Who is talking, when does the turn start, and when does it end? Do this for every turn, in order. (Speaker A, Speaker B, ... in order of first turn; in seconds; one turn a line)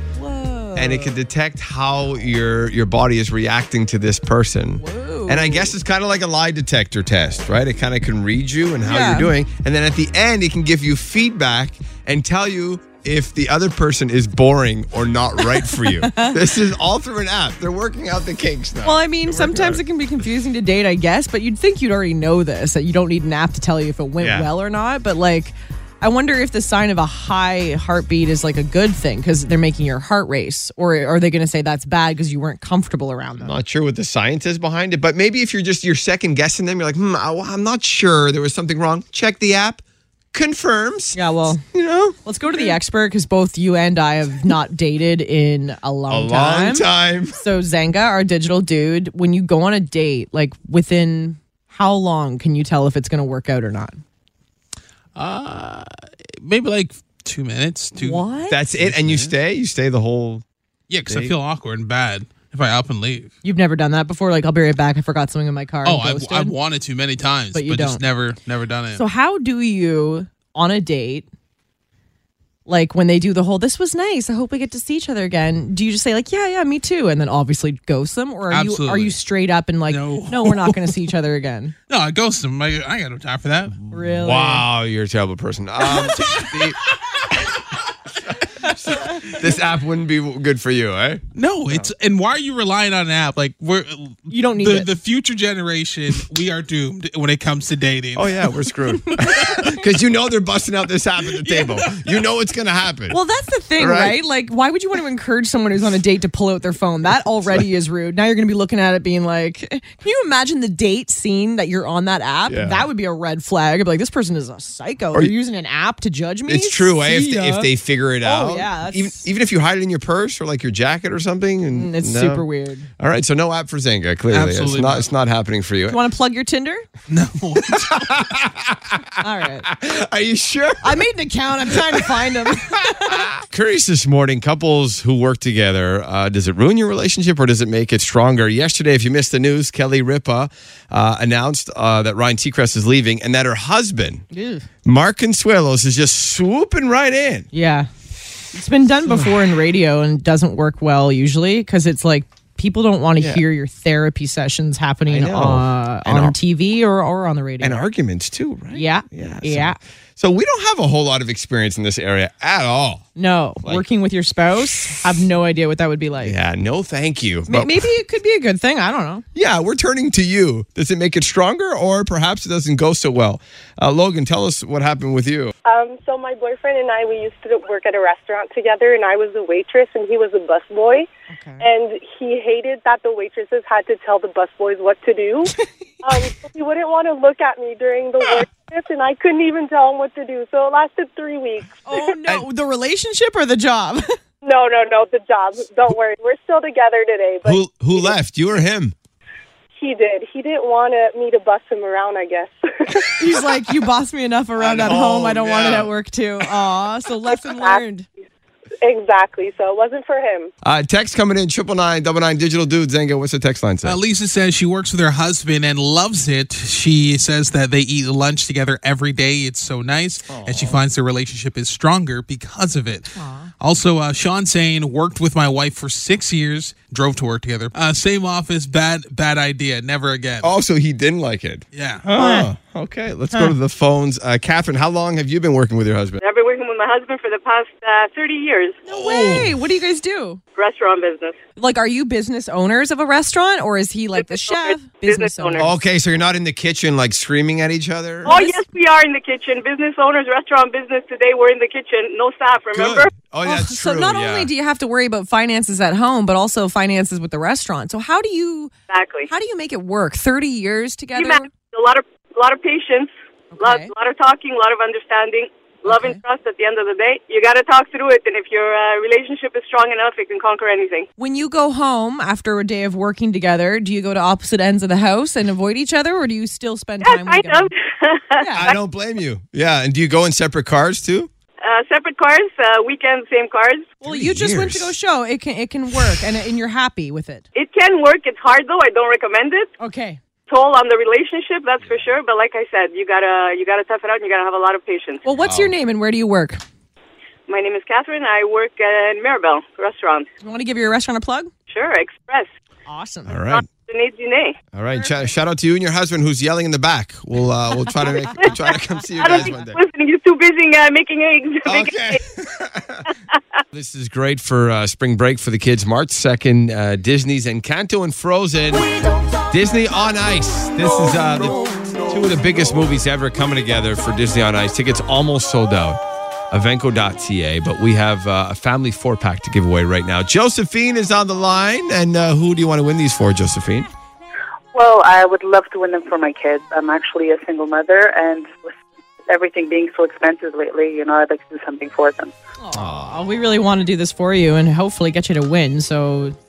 Speaker A: 0.1-1.2
Speaker B: 0.8-19.8
Speaker A: 4.8-5.7
Speaker A: 8.8-9.3
Speaker A: 15.5-16.4
Speaker A: 18.8-33.6
Speaker B: 24.2-24.5
Speaker B: 33.4-39.8
Speaker B: 40.3-42.8
Speaker A: 41.1-41.6
Speaker A: 42.2-54.0
Speaker B: 46.1-47.4
Speaker C: 55.1-55.9
Speaker C: 56.4-59.3
Speaker A: 58.0-58.6
Speaker B: 58.5-60.4
Speaker C: 60.9-63.3
Speaker B: 61.1-61.4
Speaker A: 63.4-66.6
Speaker C: 65.8-69.0
Speaker A: 67.5-68.0
Speaker A: 68.9-71.3
Speaker A: 72.7-81.7
Speaker C: 78.5-79.2
Speaker C: 79.9-80.9
Speaker C: 81.9-83.9
Speaker A: 83.9-84.7
Speaker B: 84.1-86.8
Speaker B: 88.6-91.9
Speaker C: 91.3-98.3
Speaker A: 94.3-94.9
Speaker B: 98.2-103.2
Speaker A: 103.1-119.3
Speaker B: 103.8-104.2
Speaker B: 112.5-112.9
Speaker B: 116.5-122.5
Speaker A: 121.7-122.9
Speaker B: 123.0-126.0
Speaker C: 124.3-125.1
Speaker A: 125.9-126.8
Speaker C: 127.1-128.0
Speaker B: 127.6-129.1
Speaker A: 129.2-129.7
Speaker B: 129.6-131.1
Speaker A: 130.8-133.3
Speaker B: 131.7-132.1
Speaker B: 133.1-144.2
Speaker A: 144.3-144.7
Speaker B: 144.8-147.5
Speaker A: 147.5-147.9
Speaker A: 148.5-157.8
Speaker B: 149.1-149.3
Speaker B: 153.2-153.4
Speaker B: 155.1-156.3
Speaker B: 157.6-163.1
Speaker A: 158.7-159.8
Speaker A: 163.2-166.3
Speaker B: 166.2-167.8
Speaker A: 167.5-169.2
Speaker B: 169.3-175.5
Speaker D: 175.7-181.1
Speaker A: 181.3-181.7
Speaker D: 181.6-185.5
Speaker D: 186.0-192.2
Speaker A: 191.8-194.2
Speaker D: 194.4-198.1
Speaker B: 197.4-198.9
Speaker D: 199.8-203.1
Speaker A: 203.2-208.1
Speaker B: 204.6-205.9
Speaker D: 207.4-207.8
Speaker D: 208.8-210.5
Speaker B: 210.6-214.0
Speaker C: 213.8-230.5
Speaker B: 220.3-220.8
Speaker A: 223.2-223.5
Speaker B: 230.4-236.2
Speaker C: 231.7-232.1
Speaker A: 232.2-232.5
Speaker E: 236.2-238.8
Speaker A: 238.9-240.4
Speaker B: 238.9-239.6
Speaker E: 240.6-241.4
Speaker A: 241.6-245.8
Speaker E: 244.2-245.7
Speaker B: 245.6-248.3
Speaker A: 248.2-248.6
Speaker E: 248.2-253.1
Speaker B: 252.7-254.5
Speaker A: 253.4-258.7
Speaker E: 258.9-259.3
Speaker A: 259.3-261.5
Speaker E: 261.2-271.1
Speaker A: 263.5-263.9
Speaker A: 265.9-266.2
Speaker A: 271.2-277.7
Speaker E: 277.0-278.7
Speaker A: 278.4-278.7
Speaker B: 278.5-281.3
Speaker E: 281.6-283.9
Speaker A: 284.0-287.4
Speaker B: 284.0-284.9
Speaker E: 287.6-289.7
Speaker A: 289.8-290.2
Speaker E: 290.5-295.2
Speaker A: 295.2-296.6
Speaker B: 295.4-295.7
Speaker E: 297.5-300.3
Speaker A: 300.4-301.5
Speaker E: 301.7-302.5
Speaker A: 302.9-303.4
Speaker B: 303.3-303.6
Speaker E: 303.5-304.6
Speaker B: 304.7-309.8
Speaker A: 308.1-308.3
Speaker E: 308.4-312.2
Speaker B: 311.6-313.1
Speaker B: 313.7-318.9
Speaker B: 319.5-326.0
Speaker B: 326.5-333.9
Speaker F: 334.7-338.8
Speaker F: 339.3-342.3
Speaker A: 342.6-346.4
Speaker B: 342.7-343.1